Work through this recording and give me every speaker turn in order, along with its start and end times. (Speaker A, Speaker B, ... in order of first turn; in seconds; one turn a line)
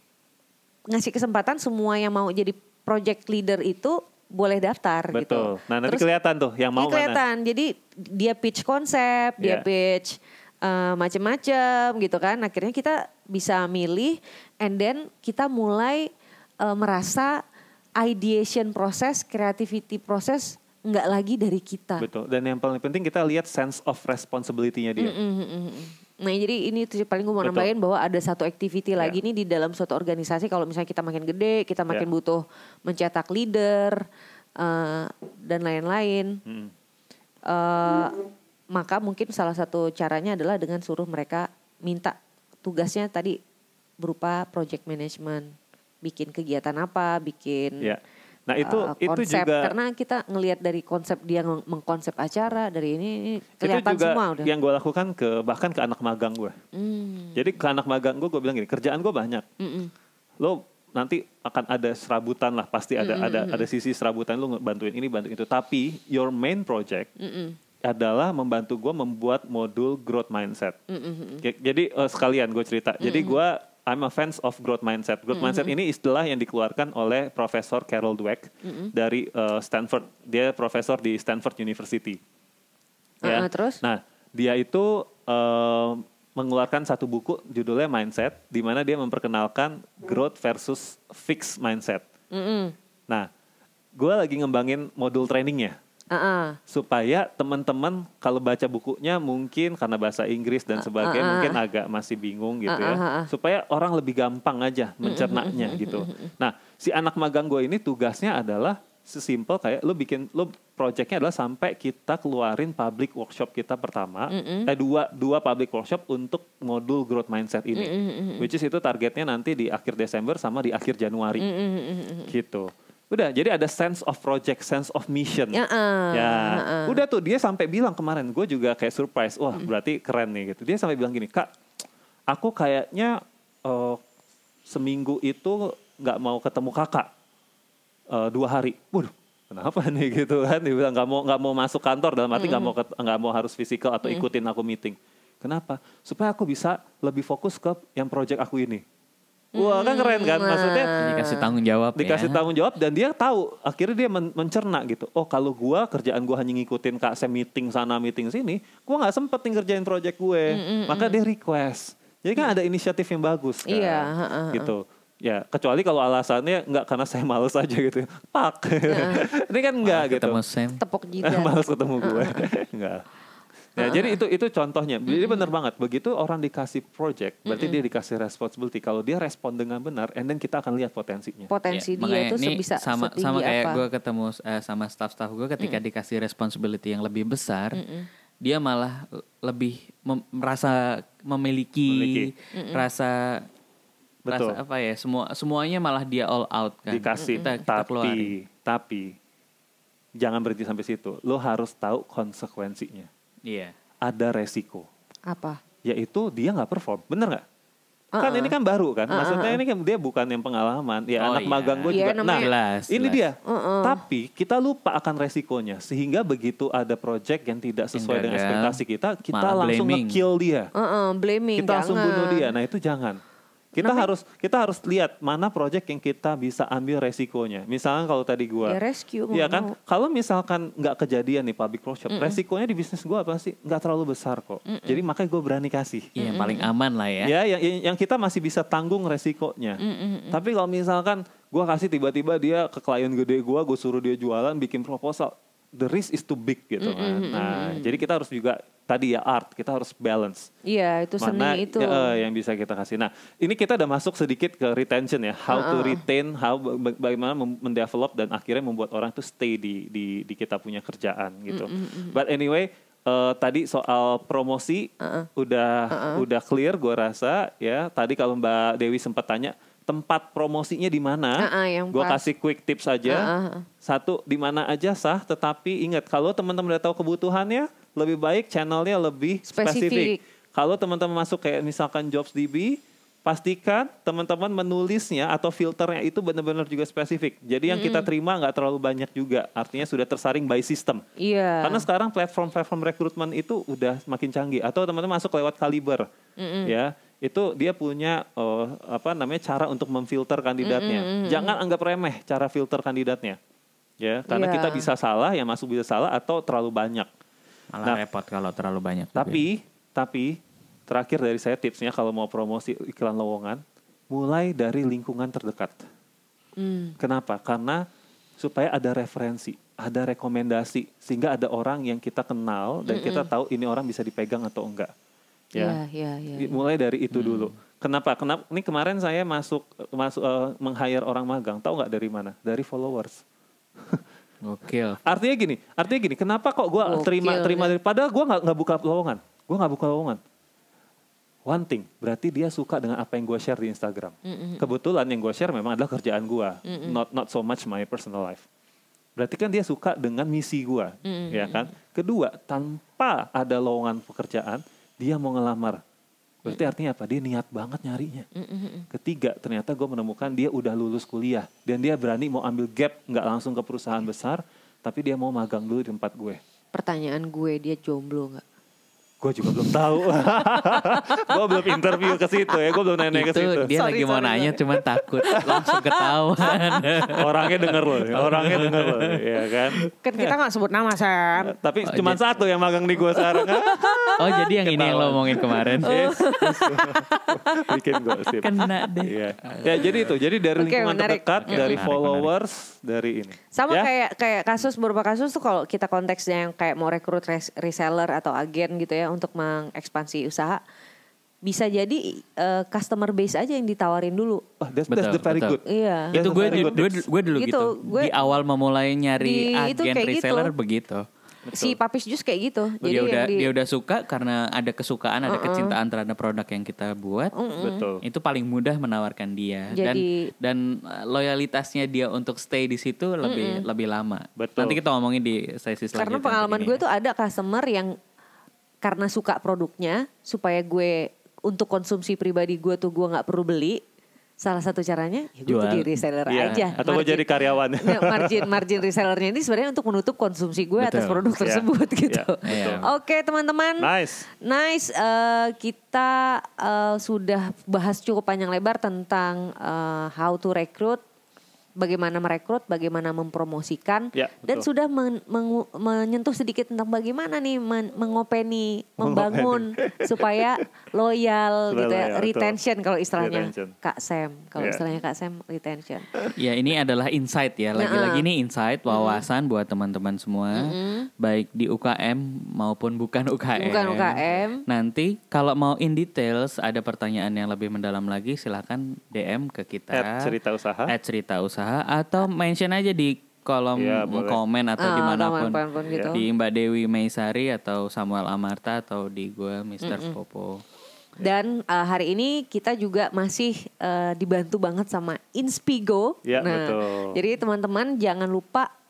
Speaker A: 0.9-6.0
Speaker B: 5.1-7.2
Speaker A: 6.8-16.1
Speaker B: 9.4-9.7
Speaker A: 16.6-17.4
Speaker A: 18.0-22.1
Speaker B: 22.0-25.2
Speaker A: 25.0-34.0
Speaker B: 27.4-27.7
Speaker A: 34.6-36.4
Speaker B: 36.5-36.7
Speaker A: 37.5-43.4
Speaker A: 44.0-45.5
Speaker A: 46.0-47.9
Speaker B: 47.8-49.7
Speaker A: 48.6-54.5
Speaker B: 53.6-56.5
Speaker A: 56.7-57.5
Speaker B: 57.3-59.5
Speaker A: 59.6-59.9
Speaker B: 60.4-67.1
Speaker A: 63.0-63.6
Speaker A: 67.2-67.6
Speaker B: 67.8-70.8
Speaker A: 70.9-71.4
Speaker B: 71.4-82.2
Speaker A: 73.0-73.4
Speaker A: 75.3-75.7
Speaker A: 78.6-78.9
Speaker A: 83.2-83.8
Speaker B: 83.2-92.0
Speaker A: 92.3-92.7
Speaker B: 94.0-95.8
Speaker A: 96.1-96.6
Speaker B: 96.7-121.5
Speaker A: 100.8-101.6
Speaker A: 102.7-103.3
Speaker A: 105.0-106.3
Speaker A: 114.3-114.7
Speaker A: 117.8-118.5
Speaker A: 121.4-122.3
Speaker B: 122.3-125.6
Speaker A: 125.5-127.0
Speaker B: 126.1-131.5
Speaker B: 132.3-134.0
Speaker B: 134.7-137.1
Speaker B: 138.1-148.8
Speaker A: 142.3-142.7
Speaker B: 149.5-150.9
Speaker A: 149.6-151.5
Speaker C: 151.0-152.4
Speaker B: 151.9-170.4
Speaker A: 160.5-161.2
Speaker A: 163.7-164.7
Speaker A: 168.9-169.2
Speaker C: 169.8-170.8
Speaker A: 170.8-172.4
Speaker B: 171.2-173.0
Speaker B: 173.8-181.5
Speaker A: 173.8-174.2
Speaker A: 175.1-175.4
Speaker A: 177.5-177.8
Speaker A: 181.5-183.8
Speaker C: 181.7-187.8
Speaker A: 187.7-188.1
Speaker C: 188.4-193.1
Speaker B: 191.9-192.3
Speaker A: 192.5-192.8
Speaker B: 194.3-194.6
Speaker C: 194.3-198.3
Speaker B: 196.9-199.1
Speaker A: 197.2-197.5
Speaker B: 200.2-203.1
Speaker C: 203.4-203.7
Speaker B: 204.0-204.9
Speaker A: 205.3-205.6
Speaker B: 205.8-207.4
Speaker A: 208.2-208.6
Speaker B: 208.2-220.7
Speaker A: 209.1-209.6
Speaker C: 211.2-213.2
Speaker A: 211.9-212.5
Speaker A: 213.4-214.0
Speaker C: 217.9-218.8
Speaker C: 219.3-220.2
Speaker A: 220.7-222.5
Speaker B: 221.6-223.2
Speaker B: 223.7-228.8
Speaker A: 223.8-224.1
Speaker A: 228.6-229.7
Speaker B: 229.3-236.1
Speaker A: 232.1-232.4
Speaker A: 234.7-235.0
Speaker C: 236.2-237.3
Speaker A: 236.2-236.7
Speaker B: 237.2-250.5
Speaker A: 239.8-240.4
Speaker A: 246.8-247.9
Speaker A: 250.7-252.1
Speaker B: 251.2-273.3
Speaker A: 255.5-256.0
Speaker A: 261.5-262.1
Speaker A: 265.0-265.3
Speaker A: 265.9-266.2
Speaker A: 271.4-272.2
Speaker A: 273.1-273.7
Speaker B: 273.8-291.0
Speaker A: 279.5-280.2
Speaker A: 287.7-288.1
Speaker A: 291.2-291.9
Speaker B: 291.6-296.1
Speaker A: 296.4-296.7
Speaker B: 296.6-303.4
Speaker A: 300.6-301.6
Speaker B: 304.0-307.1
Speaker A: 304.3-304.9
Speaker C: 307.7-309.4
Speaker B: 309.1-310.4
Speaker B: 310.9-315.9
Speaker A: 316.6-317.0
Speaker B: 317.0-317.8
Speaker B: 318.4-324.9
Speaker A: 322.9-323.3
Speaker A: 325.6-326.6
Speaker B: 326.4-333.2
Speaker C: 327.1-327.5
Speaker B: 333.8-334.0
Speaker C: 334.4-335.0
Speaker B: 335.0-340.2
Speaker A: 336.9-337.7
Speaker B: 341.4-348.4
Speaker A: 344.2-344.7
Speaker A: 346.6-347.0
Speaker B: 349.2-355.8
Speaker A: 351.0-351.7
Speaker B: 356.4-358.3
Speaker A: 358.3-358.9
Speaker B: 358.9-366.4
Speaker A: 366.7-368.4
Speaker B: 369.2-373.7
Speaker A: 370.6-372.8
Speaker C: 373.1-379.9
Speaker A: 373.7-376.9
Speaker B: 377.1-380.4
Speaker A: 380.0-381.6
Speaker B: 381.4-393.9
Speaker C: 381.9-382.2
Speaker A: 383.1-384.5
Speaker C: 384.2-386.1
Speaker A: 385.8-387.8
Speaker C: 388.4-390.1
Speaker A: 390.6-391.8
Speaker C: 391.4-392.3
Speaker A: 393.5-400.6
Speaker A: 401.4-404.4
Speaker B: 404.6-405.6
Speaker C: 404.9-405.6
Speaker A: 405.6-408.2
Speaker C: 406.1-411.0
Speaker B: 406.1-407.0
Speaker A: 409.2-410.5
Speaker B: 411.5-411.8
Speaker A: 411.5-413.5
Speaker C: 412.8-417.3
Speaker A: 415.3-415.7
Speaker A: 417.4-417.9
Speaker B: 417.6-418.0
Speaker C: 418.0-426.8
Speaker A: 419.7-420.3
Speaker A: 423.2-423.6
Speaker B: 424.4-424.8
Speaker A: 425.9-427.9
Speaker A: 428.8-433.8
Speaker A: 434.4-443.9
Speaker C: 435.5-435.9
Speaker B: 436.3-438.6
Speaker C: 436.4-436.8
Speaker C: 440.8-441.2
Speaker B: 441.4-442.8
Speaker C: 442.4-442.8
Speaker B: 443.8-444.2
Speaker A: 444.4-451.0
Speaker A: 451.8-466.1
Speaker B: 454.1-454.7
Speaker B: 459.0-460.5
Speaker B: 461.7-462.6
Speaker B: 463.2-463.7
Speaker B: 464.6-464.8
Speaker C: 466.4-480.3
Speaker A: 467.8-468.2
Speaker A: 468.9-469.2
Speaker A: 470.5-471.1
Speaker A: 473.6-474.6
Speaker B: 479.9-480.9
Speaker C: 480.9-485.6
Speaker B: 483.8-484.4
Speaker A: 484.8-486.2
Speaker B: 485.9-486.1
Speaker C: 486.1-490.6
Speaker A: 489.8-490.1
Speaker A: 491.2-498.7
Speaker B: 496.2-497.2